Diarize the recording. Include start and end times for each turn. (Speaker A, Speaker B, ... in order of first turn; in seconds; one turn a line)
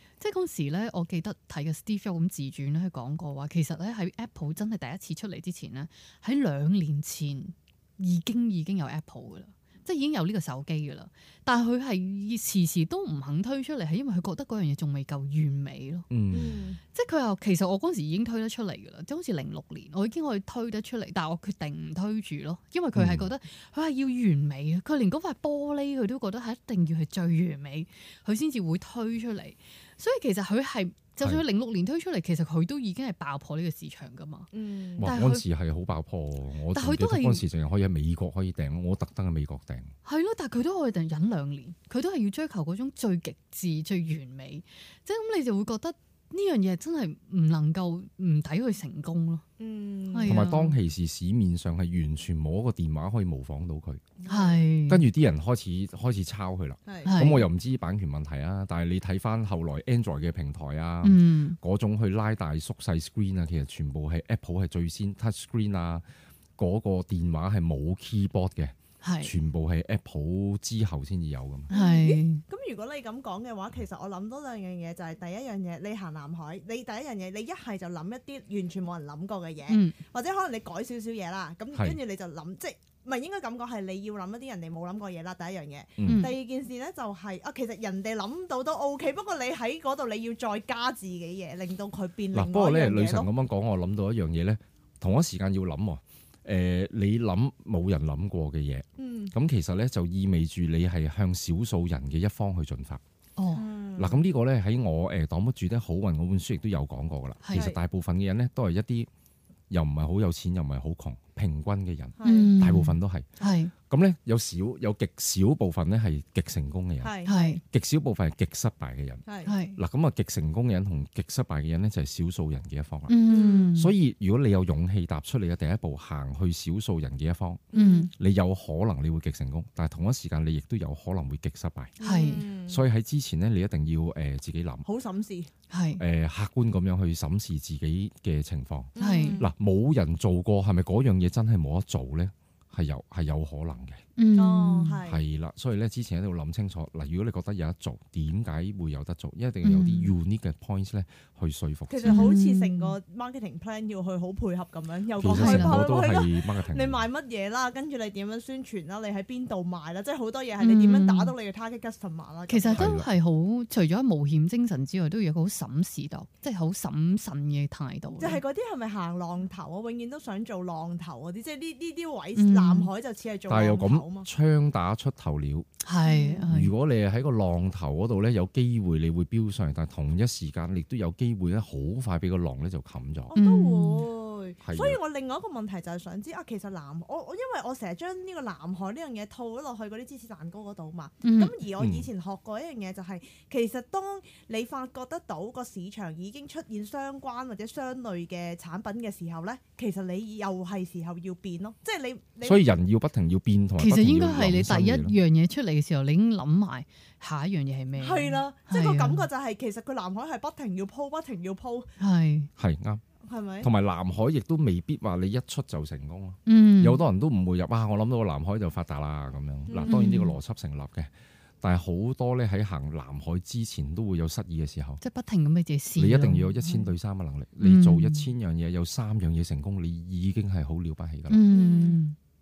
Speaker A: 0.2-16.1
Speaker B: 16.1-16.6
Speaker C: 16.3-16.8
Speaker A: 16.9-34.5
Speaker B: 22.9-23.3
Speaker C: 34.5-35.1
Speaker B: 35.0-39.9
Speaker A: 35.0-35.4
Speaker A: 36.7-37.4
Speaker A: 40.0-49.4
Speaker C: 49.6-50.5
Speaker A: 50.1-50.8
Speaker B: 50.2-54.0
Speaker C: 54.2-54.6
Speaker A: 54.3-55.0
Speaker B: 54.9-66.0
Speaker C: 56.9-57.2
Speaker A: 57.0-57.5
Speaker A: 61.0-61.6
Speaker B: 66.6-71.7
Speaker A: 69.0-69.3
Speaker A: 71.7-72.4
Speaker C: 71.7-93.3
Speaker A: 79.7-80.0
Speaker B: 86.0-86.3
Speaker A: 86.0-86.3
Speaker B: 92.3-103.0
Speaker C: 99.0-99.3
Speaker A: 103.4-103.7
Speaker C: 103.5-104.2
Speaker B: 104.0-109.1
Speaker A: 107.4-107.7
Speaker C: 107.5-107.8
Speaker B: 109.7-113.3
Speaker C: 112.2-112.5
Speaker A: 112.2-113.7
Speaker B: 113.8-119.2
Speaker C: 117.0-117.6
Speaker A: 117.2-117.6
Speaker C: 119.2-119.5
Speaker A: 119.5-119.8
Speaker B: 119.7-123.2
Speaker A: 123.1-123.9
Speaker C: 123.3-123.7
Speaker B: 123.7-132.0
Speaker C: 127.7-128.1
Speaker A: 127.7-128.1
Speaker C: 132.0-132.8
Speaker A: 132.0-132.5
Speaker B: 132.7-134.8
Speaker C: 134.8-135.5
Speaker A: 135.7-136.0
Speaker B: 136.0-144.0
Speaker C: 138.9-139.5
Speaker A: 139.0-139.4
Speaker A: 144.2-145.0
Speaker C: 144.3-145.2
Speaker B: 145.0-152.2
Speaker A: 149.6-150.1
Speaker C: 151.9-162.9
Speaker A: 152.0-152.9
Speaker B: 155.2-157.0
Speaker A: 155.3-155.8
Speaker A: 160.6-161.3
Speaker A: 162.5-168.4
Speaker B: 162.7-163.1
Speaker C: 168.2-174.3
Speaker A: 172.3-172.9
Speaker B: 173.5-175.7
Speaker A: 175.8-176.7
Speaker C: 176.0-176.5
Speaker B: 176.5-183.3
Speaker C: 183.3-202.7
Speaker A: 183.3-184.1
Speaker B: 184.6-185.0
Speaker A: 191.2-191.5
Speaker B: 191.8-192.1
Speaker B: 202.4-205.2
Speaker A: 203.8-209.3
Speaker C: 207.9-211.9
Speaker A: 212.0-212.5
Speaker B: 212.6-213.0
Speaker C: 213.2-213.7
Speaker B: 213.6-221.1
Speaker A: 216.4-217.0
Speaker C: 219.7-220.0
Speaker A: 219.9-220.3
Speaker B: 221.6-225.0
Speaker A: 225.0-226.9
Speaker B: 226.0-231.4
Speaker A: 227.6-228.3
Speaker A: 231.3-232.2
Speaker C: 231.5-232.0